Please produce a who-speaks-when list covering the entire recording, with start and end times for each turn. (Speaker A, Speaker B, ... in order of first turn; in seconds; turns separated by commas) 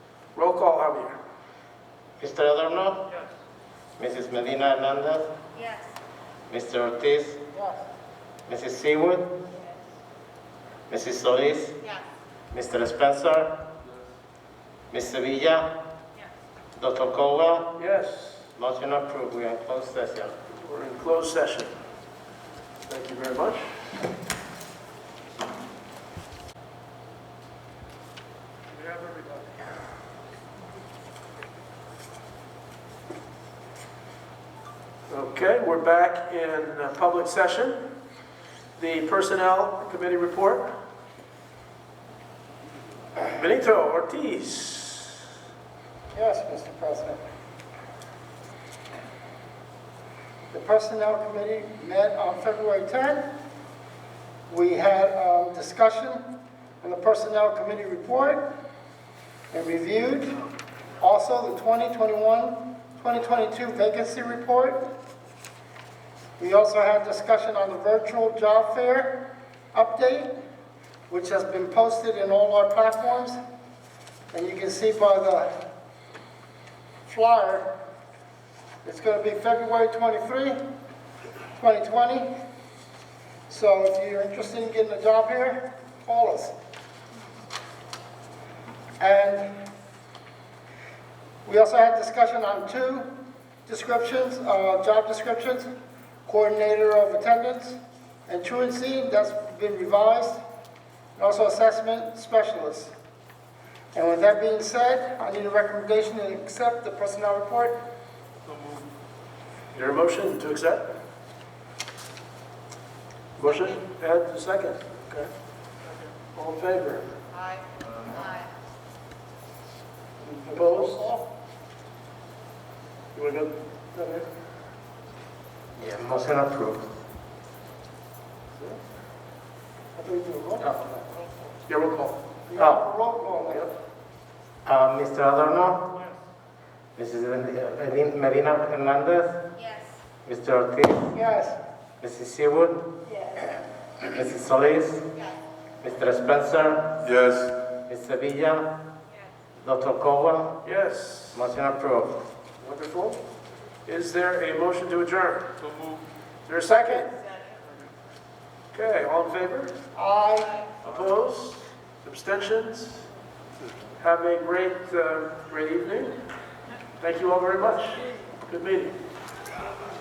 Speaker A: 0.3-1.1, Speaker B: 2.2-3.1, Speaker B: 4.0-5.3, Speaker C: 5.5-5.9, Speaker B: 6.5-7.4, Speaker B: 8.5-9.3, Speaker B: 10.9-11.8, Speaker B: 12.5-13.5, Speaker B: 14.9-15.7, Speaker B: 16.7-17.7, Speaker A: 17.8-18.5, Speaker B: 18.6-20.3, Speaker A: 20.6-21.7, Speaker A: 22.9-23.9, Speaker A: 29.0-29.3, Speaker A: 35.1-37.8, Speaker A: 38.8-40.7, Speaker A: 43.2-45.2, Speaker D: 46.1-47.2, Speaker D: 50.5-53.2, Speaker D: 54.5-56.2, Speaker D: 56.8-58.4, Speaker D: 59.5-60.3, Speaker D: 61.0-64.8, Speaker D: 66.4-69.2, Speaker D: 69.7-70.3, Speaker D: 71.1-73.4, Speaker D: 74.3-75.5, Speaker D: 77.1-77.7, Speaker D: 78.8-80.6, Speaker D: 81.6-82.3, Speaker D: 83.5-86.5, Speaker D: 89.0-89.5, Speaker D: 91.4-93.1, Speaker D: 93.7-95.7, Speaker D: 96.3-100.4, Speaker D: 101.2-102.9, Speaker D: 103.9-107.8, Speaker A: 109.7-110.9, Speaker A: 113.4-115.3, Speaker A: 116.3-117.1, Speaker C: 117.3-118.5, Speaker A: 120.2-121.0, Speaker D: 120.5-121.2, Speaker A: 123.1-124.3, Speaker B: 125.8-126.9, Speaker D: 129.9-131.0, Speaker A: 131.7-132.2, Speaker D: 132.5-133.7, Speaker B: 134.7-135.9, Speaker B: 136.9-139.4, Speaker C: 139.6-140.0, Speaker B: 140.2-141.2, Speaker D: 141.1-141.6, Speaker B: 142.0-142.9, Speaker B: 144.0-145.1, Speaker B: 145.8-148.7, Speaker B: 149.6-150.6, Speaker A: 150.6-151.4, Speaker B: 151.3-152.2, Speaker A: 152.6-153.2, Speaker A: 153.8-155.5, Speaker A: 156.4-157.1, Speaker A: 158.7-159.7, Speaker D: 159.9-160.7, Speaker A: 160.8-163.1, Speaker A: 164.0-166.2, Speaker A: 167.0-168.9